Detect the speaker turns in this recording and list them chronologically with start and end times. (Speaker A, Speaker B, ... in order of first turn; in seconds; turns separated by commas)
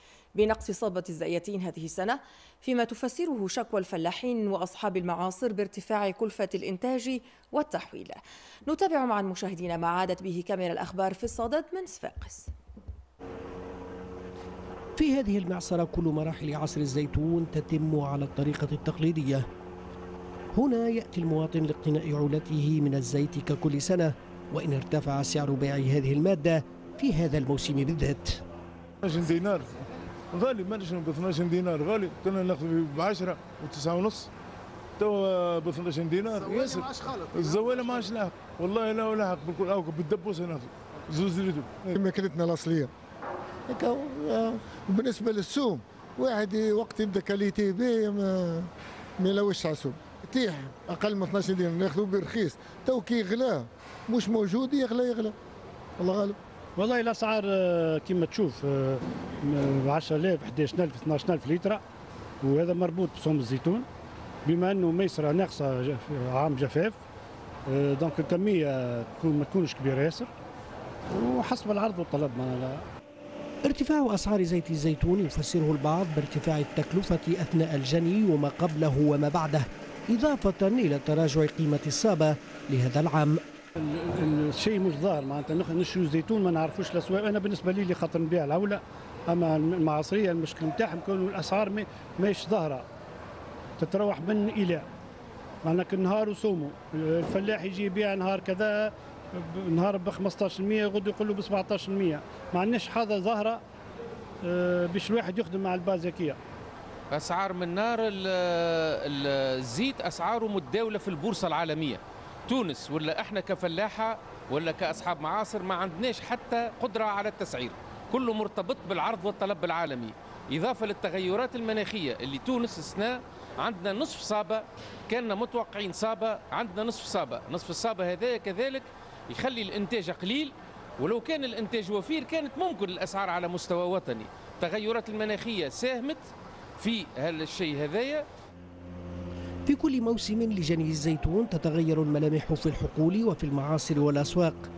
Speaker A: 0.3-12.5, Speaker B: 15.0-19.3, Speaker B: 20.6-28.2, Speaker C: 29.0-29.7, Speaker C: 30.3-34.3, Speaker C: 35.0-41.7, Speaker D: 41.9-42.9, Speaker D: 43.7-55.3, Speaker D: 56.0-56.4, Speaker E: 56.8-61.8, Speaker E: 62.4-63.9, Speaker E: 64.5-67.0, Speaker E: 67.7-70.3, Speaker E: 71.1-72.8, Speaker B: 73.8-79.6, Speaker B: 80.1-82.2, Speaker B: 82.8-83.3, Speaker E: 83.8-92.8, Speaker E: 93.8-94.8, Speaker E: 95.6-103.6, Speaker E: 104.4-106.4, Speaker F: 107.1-136.2, Speaker F: 136.8-138.2